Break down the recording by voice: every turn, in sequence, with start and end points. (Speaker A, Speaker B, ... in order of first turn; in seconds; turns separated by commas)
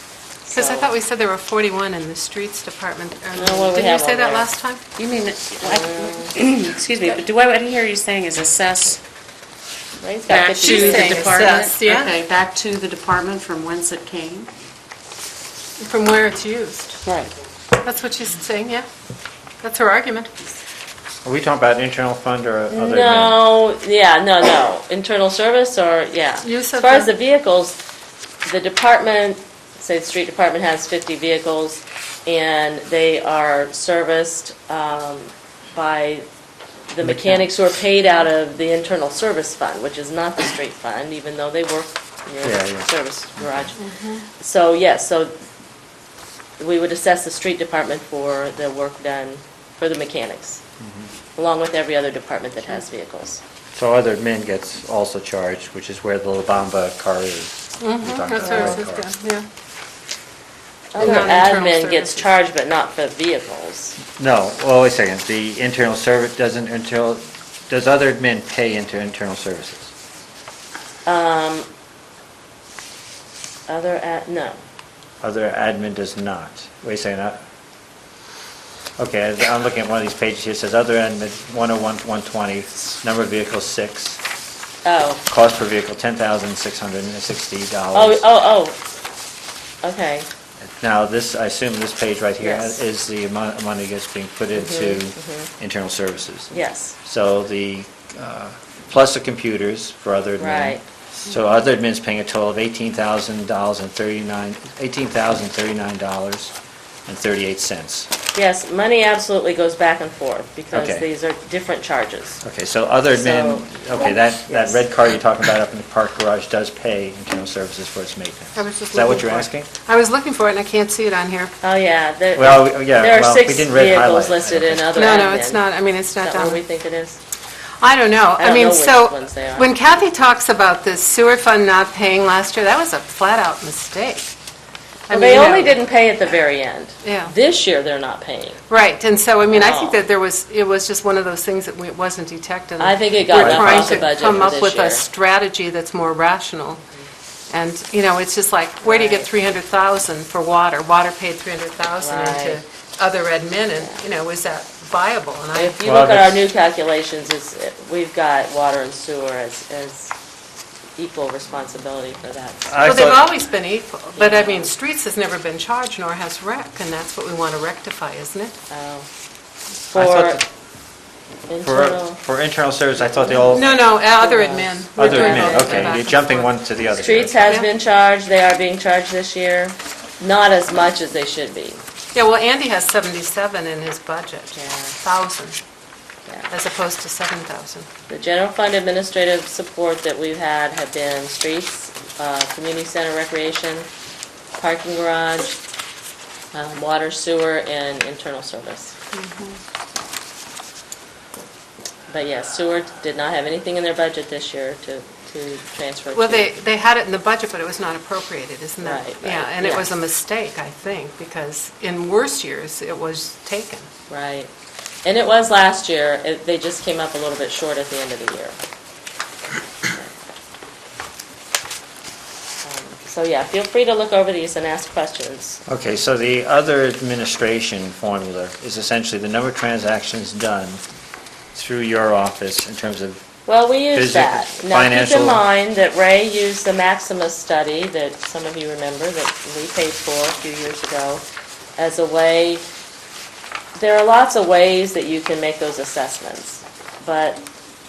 Speaker A: 0.5-0.9, Speaker B: 0.5-4.9, Speaker A: 3.4-4.5, Speaker C: 4.9-9.0, Speaker A: 5.6-6.4, Speaker A: 10.0-11.3, Speaker C: 10.3-14.5, Speaker B: 10.6-12.1, Speaker B: 15.8-17.0, Speaker C: 17.0-17.3, Speaker B: 17.8-18.9, Speaker B: 19.6-20.3, Speaker D: 21.2-23.4, Speaker A: 22.7-27.8, Speaker B: 26.4-27.1, Speaker A: 28.4-36.2, Speaker A: 36.9-45.3, Speaker D: 37.0-37.5, Speaker D: 42.4-42.9, Speaker B: 43.8-44.2, Speaker A: 46.6-50.6, Speaker D: 50.8-51.1, Speaker A: 51.4-53.4, Speaker D: 53.7-59.0, Speaker B: 57.8-59.5, Speaker A: 60.9-64.0, Speaker B: 61.0-62.3, Speaker D: 61.0-61.3, Speaker D: 64.2-69.9, Speaker A: 71.0-71.7, Speaker A: 73.7-74.6, Speaker D: 75.2-77.4, Speaker D: 79.0-84.2, Speaker A: 84.8-85.2, Speaker D: 85.3-88.2, Speaker A: 87.9-88.8, Speaker A: 89.8-90.3, Speaker D: 90.6-106.5, Speaker A: 92.4-92.8, Speaker A: 94.5-95.5, Speaker A: 96.5-97.0, Speaker A: 100.4-100.8, Speaker D: 107.1-108.1, Speaker A: 108.3-112.4, Speaker D: 110.7-111.0, Speaker D: 112.4-119.7, Speaker A: 113.1-114.8, Speaker B: 118.5-121.5, Speaker A: 121.6-125.6, Speaker D: 122.3-124.9, Speaker B: 124.9-126.6, Speaker A: 126.2-127.2, Speaker B: 127.8-134.3, Speaker A: 128.4-129.7, Speaker B: 135.1-135.8, Speaker A: 135.1-138.6, Speaker B: 137.0-137.3, Speaker B: 138.7-146.8, Speaker A: 139.5-140.0, Speaker A: 142.8-145.1, Speaker D: 143.3-144.4, Speaker B: 147.5-155.8, Speaker A: 148.8-149.3, Speaker A: 152.0-152.6, Speaker A: 155.5-160.1, Speaker D: 155.8-156.4, Speaker A: 160.9-162.9, Speaker D: 162.7-163.2, Speaker B: 162.8-168.6, Speaker A: 164.2-164.7, Speaker A: 168.7-169.1, Speaker A: 169.8-170.4, Speaker D: 169.9-170.4, Speaker A: 171.5-172.2, Speaker D: 171.6-173.7, Speaker A: 173.2-176.1, Speaker B: 173.5-176.5, Speaker D: 174.9-177.5, Speaker A: 176.9-181.8, Speaker B: 182.1-185.6, Speaker A: 184.5-184.9, Speaker B: 186.5-187.9, Speaker A: 188.1-193.9, Speaker A: 194.6-195.6, Speaker A: 196.5-198.9, Speaker B: 199.1-199.6, Speaker A: 202.1-206.5, Speaker B: 206.1-213.9, Speaker A: 208.8-209.9, Speaker A: 214.1-214.5, Speaker A: 215.0-218.6, Speaker A: 219.8-220.2, Speaker A: 222.6-225.6, Speaker D: 225.7-230.8, Speaker D: 231.5-233.2, Speaker A: 233.4-241.2, Speaker D: 233.9-235.4, Speaker A: 241.8-242.6, Speaker A: 243.7-247.4